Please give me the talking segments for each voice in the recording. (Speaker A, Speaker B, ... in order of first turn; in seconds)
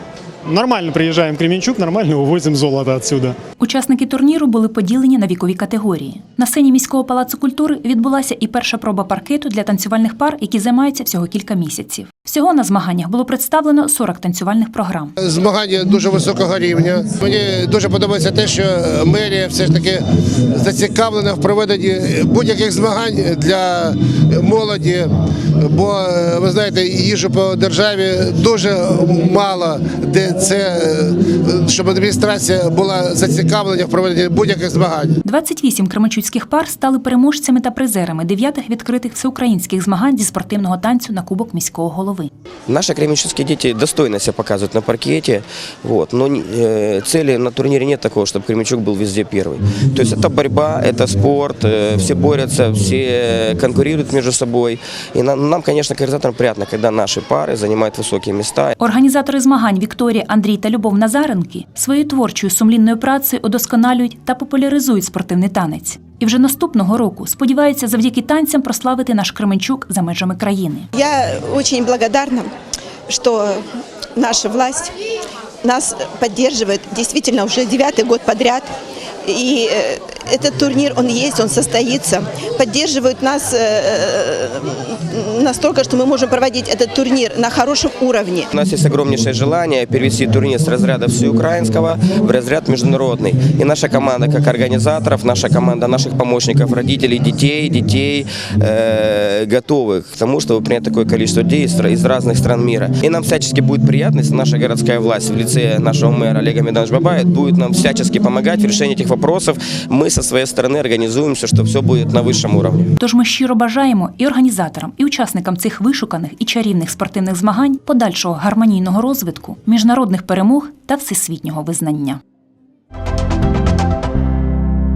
Speaker A: 0.5-3.4
Speaker B: 3.6-15.2, 35.2-42.3, 58.8-70.9, 113.0-122.2
Speaker C: 15.2-20.0, 20.6-25.1, 25.6-35.1
Speaker D: 42.7-58.8, 88.5-112.8
Speaker E: 71.0-72.5, 73.1-73.6, 74.2-74.9, 75.6-78.7, 79.3-88.5